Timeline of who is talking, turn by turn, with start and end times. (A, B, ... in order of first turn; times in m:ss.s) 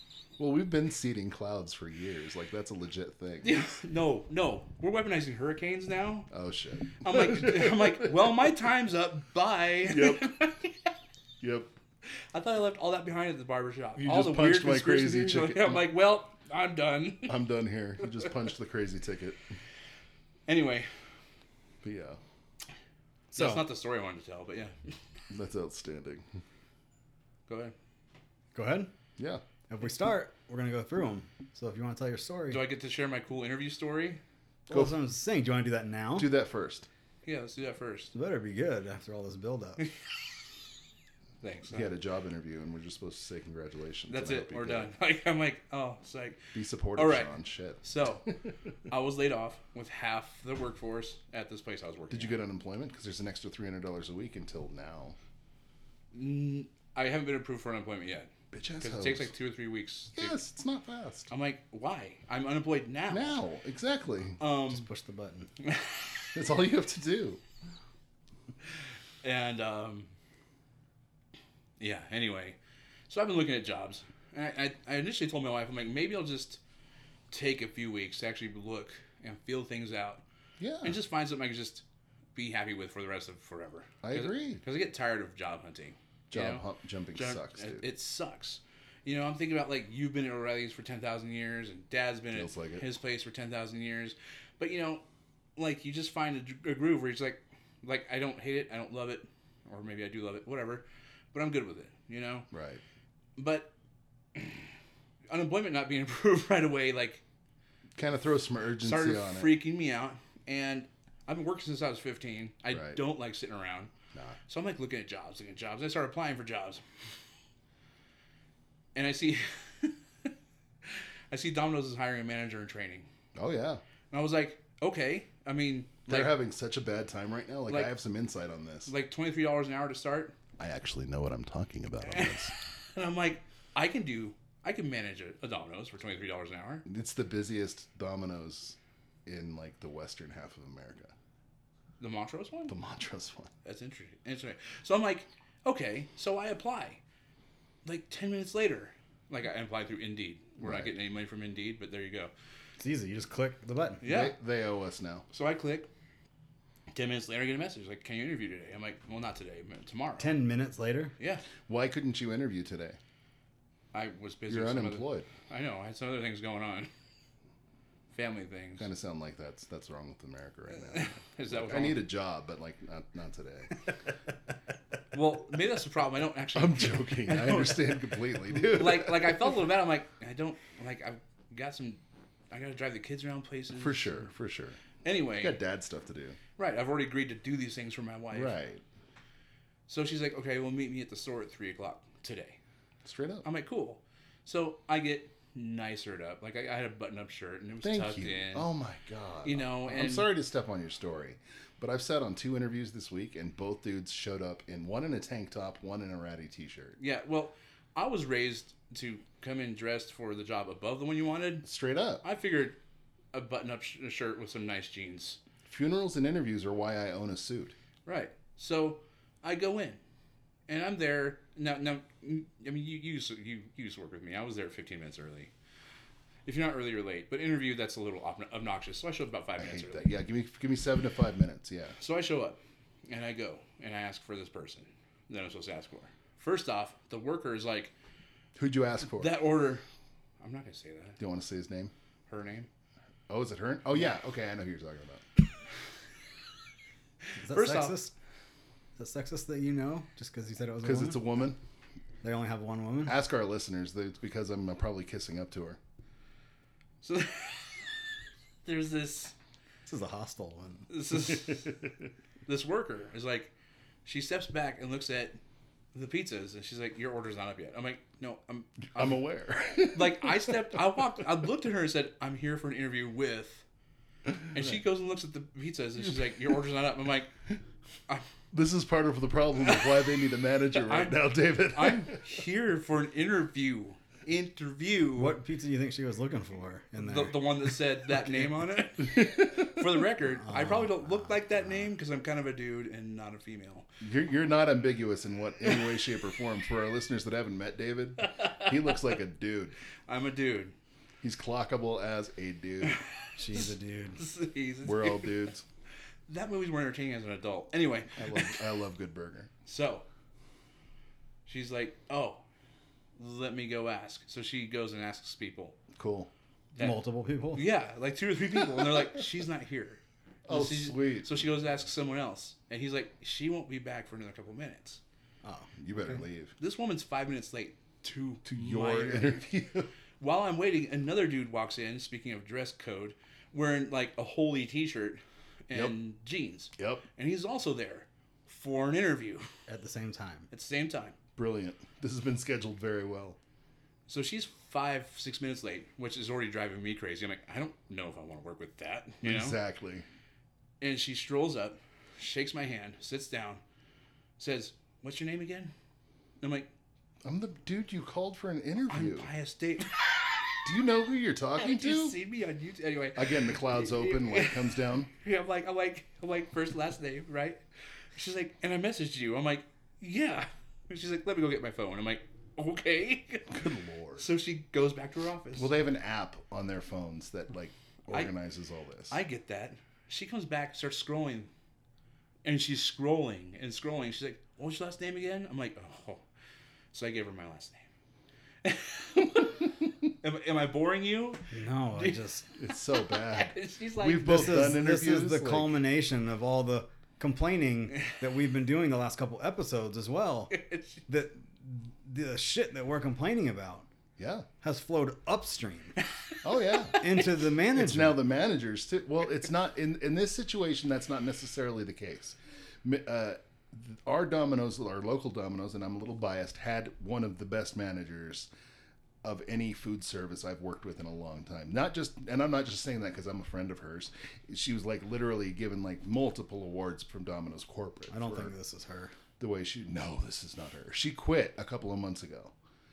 0:00.4-0:03.6 A
0:03.4-0:06.3 B
0:06.3-0:08.4 A
0:07.0-0:10.9 B
0:09.9-0:10.3 A
0:11.4-0:11.7 A
0:12.3-0:17.4 B
0:14.0-0:15.8 A
0:17.3-0:19.4 A
0:20.5-0:20.9 B
0:21.8-0:22.2 A
0:23.3-0:23.6 C
0:23.3-0:25.0 B
0:25.3-0:26.3 A
0:27.5-0:27.8 B
0:28.6-0:28.9 C
0:29.2-0:29.4 A
0:29.7-0:32.6 C
0:32.5-0:34.2 B
0:34.7-0:36.3 C
0:34.7-0:35.0 A
0:36.2-0:36.9 A
0:37.2-0:38.1 B
0:38.1-0:39.8 C
0:41.4-0:41.9 B
0:41.7-0:44.9 A
0:44.1-0:48.3 B
0:46.5-0:47.8 A
0:48.9-0:52.4 B
0:52.1-0:55.2 A
0:56.1-1:00.4 B
0:58.5-0:59.3 A
1:00.2-1:01.3 A
1:01.3-1:03.4 B
1:03.1-1:04.4 A
1:04.4-1:04.9 B
1:04.7-1:05.5 C
1:05.6-1:06.3 B
1:06.3-1:07.4 A
1:09.2-1:10.1 B
1:11.8-1:12.6 B
1:13.1-1:16.6 B
1:17.3-1:20.2 B
1:20.6-1:21.0 A
1:20.8-1:21.8 B
1:22.4-1:26.6 B
1:24.0-1:24.6 A
1:26.3-1:27.9 A
1:27.2-1:35.0 B
1:32.3-1:32.8 A
1:35.6-1:42.5 B
1:42.5-1:42.8 A
1:43.4-1:43.7 B
1:44.4-1:44.7 B
1:45.3-1:47.2 B
1:48.0-1:49.6 A
1:48.8-1:53.9 B
1:52.7-1:53.0 A
1:54.5-1:56.8 B
1:59.0-2:00.3 B
2:01.3-2:03.1 B
2:03.4-2:03.8 A
2:04.1-2:06.3 B
2:06.1-2:08.9 A
2:07.7-2:07.9 B
2:08.9-2:10.3 B
2:10.6-2:12.5 A
2:12.0-2:16.8 B
2:16.8-2:21.1 A
2:22.0-2:22.7 B
2:22.7-2:23.5 A
2:23.6-2:27.0 B
2:27.8-2:32.3 B
2:30.6-2:30.9 A
2:32.8-2:34.0 C
2:34.0-2:34.4 B
2:34.0-2:35.2 A
2:35.3-2:35.9 B
2:36.9-2:40.3 B
2:40.2-2:41.1 C
2:41.2-2:41.5 B
2:41.6-2:43.0 A
2:43.9-2:46.9 B
2:44.5-2:45.3 A
2:48.1-2:48.9 B
2:48.8-2:53.7 A
2:50.8-2:52.0 B
2:55.1-3:04.2 B
2:56.6-2:59.6 A
3:03.8-3:04.8 A
3:05.0-3:05.6 B
3:05.4-3:06.4 A
3:06.6-3:08.6 B
3:08.3-3:08.8 A
3:09.9-3:12.6 B
3:13.0-3:13.4 A
3:13.4-3:18.7 B
3:17.8-3:27.0 A
3:19.4-3:20.3 B
3:27.0-3:31.7 B
3:31.6-3:32.2 A
3:32.2-3:32.8 B
3:33.3-3:35.4 B
3:35.7-3:37.8 A
3:38.1-3:40.0 B
3:40.7-3:45.5 B
3:46.5-3:50.1 B
3:49.6-3:52.0 A
3:52.0-3:57.9 B
3:58.6-3:59.4 A
3:59.1-3:59.8 B
4:00.4-4:01.2 B
4:01.2-4:01.9 A
4:02.3-4:02.7 B
4:03.3-4:05.2 A
4:07.4-4:08.1 C
4:07.5-4:08.0 B
4:09.0-4:11.2 C
4:10.8-4:11.6 A
4:12.2-4:13.2 C
4:13.1-4:15.8 A
4:17.0-4:18.0 B
4:18.6-4:19.3 B
4:19.9-4:20.9 C
4:20.9-4:21.8 B
4:22.5-4:23.5 B
4:24.0-4:25.4 B
4:25.9-4:29.2 B
4:29.0-4:30.8 A
4:29.9-4:33.6 B
4:34.5-4:37.3 B
4:38.5-4:42.3 A
4:39.7-4:40.0 B
4:40.8-4:45.4 B
4:45.2-4:47.4 C
4:47.0-4:53.9 B
4:49.2-4:49.6 A
4:50.5-4:51.4 C
4:54.0-4:59.8 A
4:58.2-4:58.7 B
5:00.1-5:00.8 B
5:01.2-5:03.0 A
5:02.8-5:05.4 B
5:03.4-5:04.2 C
5:04.8-5:05.6 A
5:06.3-5:08.6 B
5:08.2-5:09.5 A
5:09.7-5:10.1 B
5:11.5-5:12.4 B
5:13.2-5:15.8 B
5:16.0-5:16.3 A
5:16.8-5:17.0 B
5:16.8-5:17.6 C
5:17.5-5:25.0 B
5:20.5-5:21.4 A
5:25.4-5:25.7 C
5:25.8-5:26.6 A
5:26.6-5:29.4 B
5:28.5-5:29.9 A
5:30.2-5:39.5 B
5:36.8-5:37.0 A
5:39.7-5:40.5 C
5:40.5-5:41.2 B
5:41.4-5:43.4 A
5:44.1-5:49.6 B
5:49.2-5:50.0 A
5:50.8-5:53.6 B
5:54.4-5:55.7 B
5:56.4-5:56.7 B
5:57.2-5:59.3 A
5:58.9-6:00.7 B
6:00.6-6:02.2 A
6:01.6-6:07.6 B
6:03.2-6:05.1 A
6:08.2-6:13.6 B
6:13.5-6:14.3 A
6:14.2-6:15.7 B
6:15.6-6:19.2 A
6:19.1-6:21.5 B
6:22.4-6:26.2 B
6:26.9-6:27.8 B
6:28.6-6:34.8 B
6:31.5-6:32.5 C
6:32.6-6:35.8 A
6:34.2-6:40.6 C
6:40.5-6:41.0 B
6:41.1-6:43.9 C
6:44.2-6:44.5 A
6:44.6-6:46.0 C
6:46.4-6:47.1 A
6:47.0-6:48.2 C
6:47.7-6:58.5 A
6:59.2-7:08.5 A
7:08.1-7:09.1 C
7:09.4-7:12.5 A